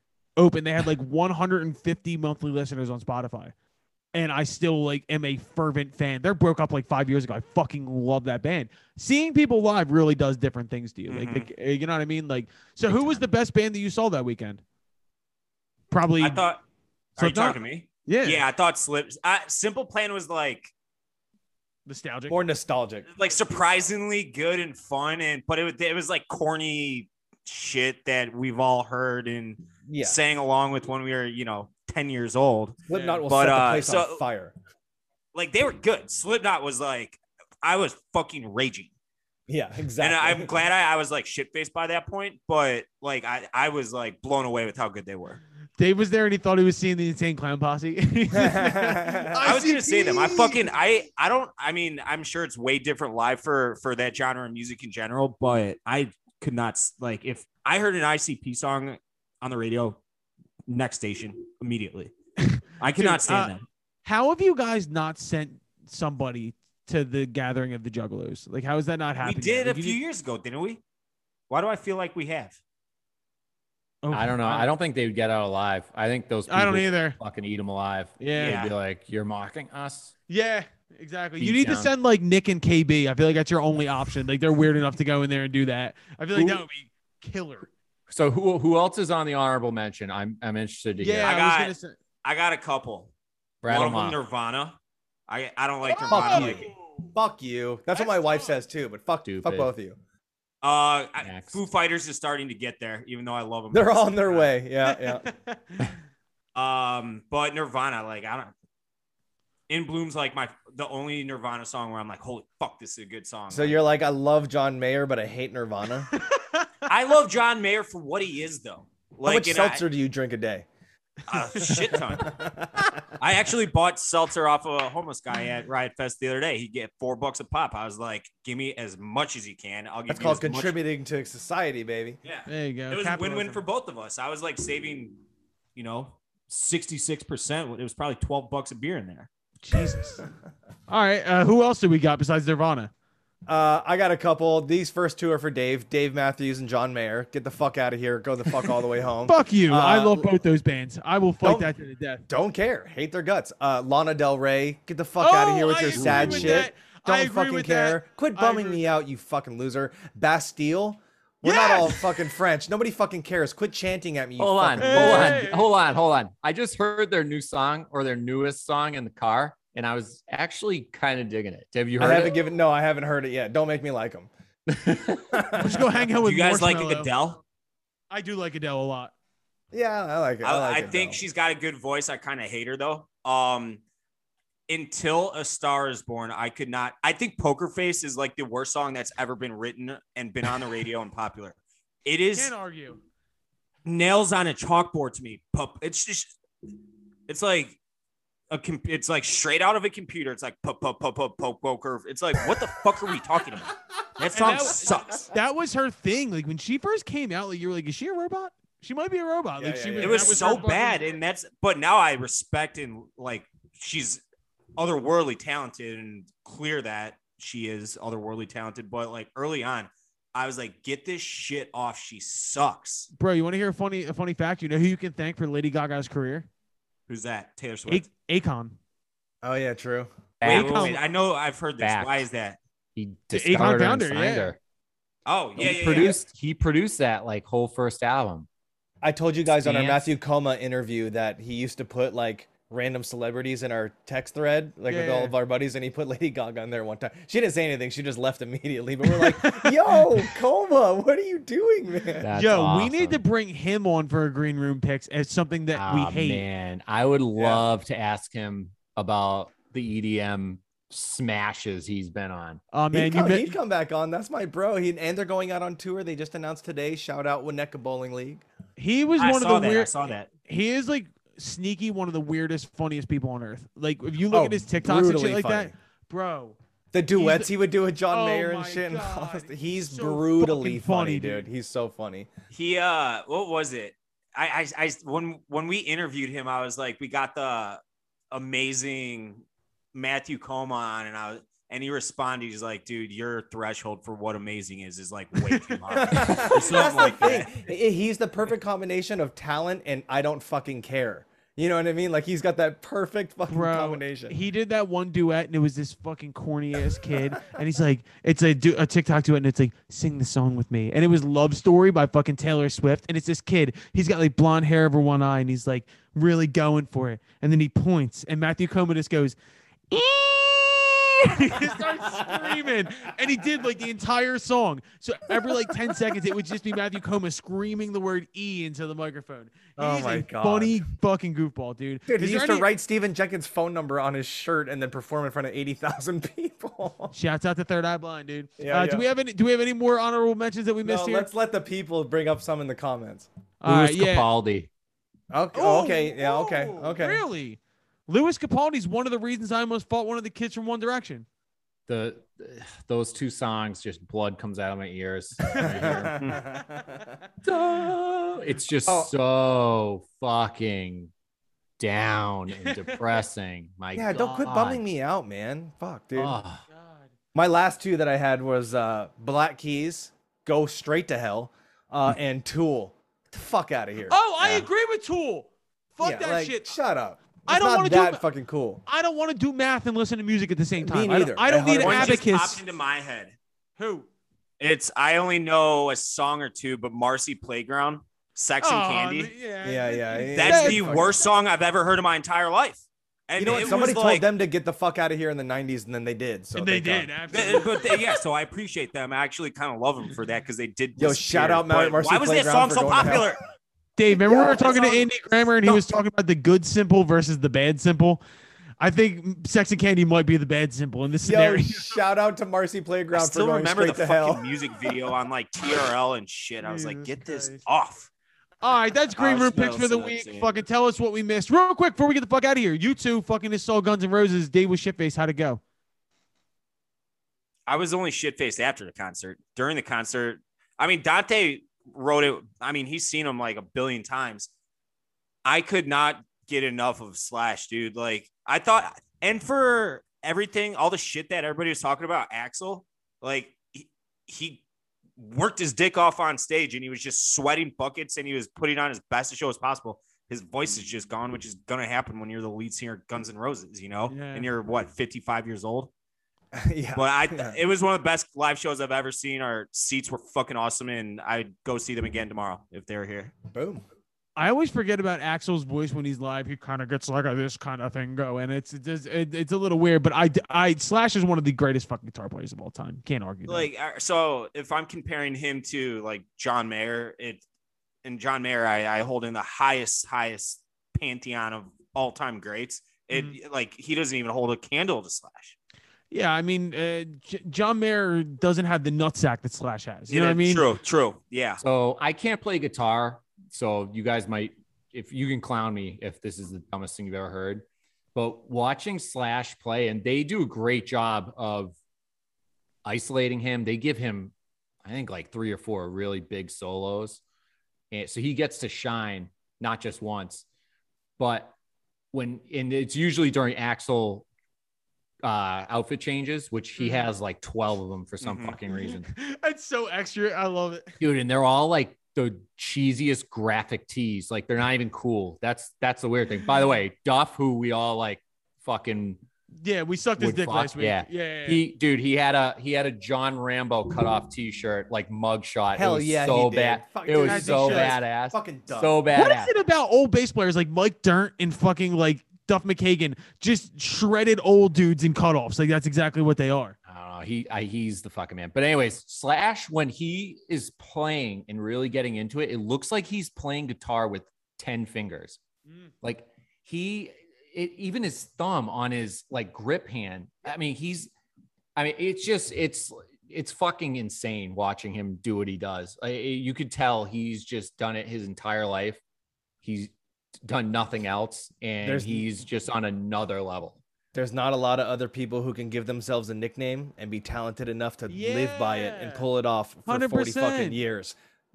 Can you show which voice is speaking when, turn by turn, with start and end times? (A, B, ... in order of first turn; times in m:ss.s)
0:00.4-0:03.5 A
0:04.1-0:14.6 A
0:11.1-0:11.5 B
0:12.9-0:13.2 C
0:15.9-0:16.4 A
0:16.2-0:16.6 B
0:17.2-0:20.7 B
0:17.2-0:18.4 A
0:21.8-0:22.4 A
0:22.3-0:23.1 D
0:23.1-0:34.2 B
0:29.9-0:30.2 D
0:32.9-0:33.2 A
0:32.9-0:34.5 D
0:35.3-0:38.9 B
0:39.5-0:40.5 D
0:40.0-0:45.4 B
0:45.8-0:50.6 A
0:48.3-0:49.7 D
0:49.4-1:00.0 B
1:00.7-1:02.1 B
1:02.4-1:10.0 A
1:02.8-1:03.6 B
1:09.2-1:10.8 B
1:11.5-1:12.6 B
1:14.0-1:14.7 A
1:14.1-1:20.1 C
1:16.5-1:17.2 A
1:18.2-1:18.6 A
1:18.4-1:18.7 B
1:20.3-1:27.7 A
1:21.4-1:21.9 C
1:26.3-1:26.6 C
1:28.1-1:31.3 C
1:31.0-1:32.0 A
1:31.2-1:33.1 B
1:33.6-1:34.2 C
1:33.6-1:34.8 B
1:35.3-1:36.7 B
1:35.8-1:37.1 A
1:36.1-1:40.0 D
1:37.9-1:38.5 A
1:39.2-1:39.7 C
1:40.6-1:44.5 B
1:41.2-1:41.6 C
1:43.7-1:45.3 D
1:44.8-1:45.9 A
1:46.5-1:48.5 B
1:49.7-1:53.8 B
1:53.5-1:56.1 D
1:56.1-1:56.7 A
1:56.9-1:59.8 B
1:59.2-2:00.6 D
2:01.3-2:02.4 B
2:01.6-2:02.9 D
2:03.2-2:10.8 B
2:10.1-2:12.2 D
2:12.2-2:15.2 B
2:12.5-2:13.6 A
2:15.7-2:19.3 B
2:19.6-2:20.2 A
2:20.9-2:22.9 A
2:23.5-2:30.3 D
2:29.2-2:32.2 A
2:31.4-2:31.7 D
2:32.3-2:45.4 D
2:35.2-2:38.9 A
2:35.9-2:36.7 C
2:41.4-2:42.2 A
2:44.4-2:52.4 C
2:44.8-2:45.7 A
2:52.0-2:54.3 D
2:54.7-2:55.5 C
2:55.3-2:55.8 D
2:55.5-2:57.1 A
2:56.2-2:57.4 B
2:58.1-2:59.1 A
2:59.7-3:01.2 D
3:00.4-3:03.8 B
3:04.7-3:12.5 B
3:12.3-3:13.0 A
3:13.8-3:16.3 B
3:17.3-3:17.8 B
3:18.5-3:25.3 B
3:24.3-3:31.0 A
3:29.6-3:30.6 D
3:30.0-3:34.2 B
3:34.8-3:43.1 B
3:43.2-3:46.5 A
3:47.1-3:48.0 B
3:47.9-3:48.8 A
3:49.4-3:50.1 D
3:50.4-3:50.9 C
3:50.4-3:52.6 B
3:50.4-3:51.0 A
3:51.8-3:52.2 C
3:53.0-3:54.6 C
3:53.3-3:54.5 A
3:55.2-3:56.2 B
3:55.6-3:58.5 C
3:55.6-3:56.2 D
3:59.0-4:12.2 D
3:59.4-4:00.1 C
4:04.9-4:05.3 A
4:09.1-4:09.7 A
4:12.2-4:13.2 C
4:12.3-4:16.4 A
4:15.7-4:22.6 C
4:17.4-4:17.6 D
4:22.7-4:23.6 A
4:22.9-4:28.4 D
4:28.8-4:36.6 A
4:29.2-4:30.3 B
4:34.3-4:35.7 D
4:36.9-4:42.3 D
4:37.1-4:37.5 A
4:38.1-4:41.5 A
4:42.5-4:47.8 B
4:48.3-4:57.5 B
4:55.4-4:57.2 A
4:55.9-5:04.4 D
5:03.5-5:19.4 A
5:19.9-5:32.7 A
5:22.2-5:22.5 D
5:29.8-5:30.8 D
5:32.1-5:37.1 D
5:37.1-5:41.3 A
5:38.6-5:39.1 D
5:40.8-5:43.3 D
5:43.6-5:44.2 A
5:43.6-5:44.7 C
5:45.3-5:47.2 D
5:45.5-5:51.2 A
5:51.9-5:56.4 C
5:55.5-5:55.9 A
5:55.5-5:57.0 D
5:56.8-5:57.1 A
5:57.4-6:01.1 C
5:58.8-5:59.1 D
6:01.8-6:04.8 C
6:02.5-6:03.2 A
6:03.9-6:06.4 D
6:04.1-6:04.6 A
6:06.1-6:06.6 C
6:06.7-6:07.1 A
6:07.3-6:14.6 D
6:14.1-6:16.7 A
6:16.0-6:18.8 D
6:17.5-6:18.2 A
6:18.8-6:22.6 A
6:20.8-6:22.2 D
6:21.8-6:23.4 B
6:23.8-6:24.1 A
6:24.6-6:29.3 B
6:28.6-6:31.1 A
6:29.6-6:31.1 D
6:30.3-6:34.3 B
6:33.4-6:37.1 D
6:33.5-6:33.8 A
6:36.5-6:38.1 A
6:37.3-6:43.4 B
6:41.0-6:43.4 D
6:44.0-6:48.2 A
6:44.1-6:45.1 D
6:45.6-6:46.0 D
6:48.8-6:51.8 A
6:51.2-6:54.5 D
6:53.1-6:58.1 B
6:56.6-6:57.6 A
6:58.6-7:05.6 A
6:59.2-7:00.6 B
7:07.7-7:14.5 B
7:15.4-7:24.6 B
7:25.2-7:35.9 B
7:34.1-7:34.5 A
7:36.5-7:37.6 D
7:37.0-7:43.3 B
7:43.5-7:43.8 D
7:44.4-7:53.7 A
7:53.5-7:57.4 B
7:58.0-8:05.6 B
8:06.1-8:10.7 A
8:10.1-8:11.6 B
8:11.6-8:21.8 C
8:22.8-8:24.3 C
8:24.8-8:27.2 C
8:27.9-8:30.4 C
8:31.2-8:31.5 C
8:32.1-8:34.3 C
8:35.2-8:39.1 C
8:36.8-8:37.1 A
8:38.2-8:38.6 B
8:38.7-8:41.0 A
8:41.0-8:49.2 C
8:49.6-8:51.6 A
8:50.2-8:59.5 C
8:55.7-8:59.0 D
8:57.1-8:58.0 A
8:59.1-9:06.8 A
9:06.8-9:15.4 C
9:16.0-9:21.1 C
9:21.8-9:29.0 C
9:29.6-9:33.8 C
9:31.8-9:32.3 D
9:34.1-9:41.2 D
9:38.1-9:39.3 A
9:39.9-9:40.8 A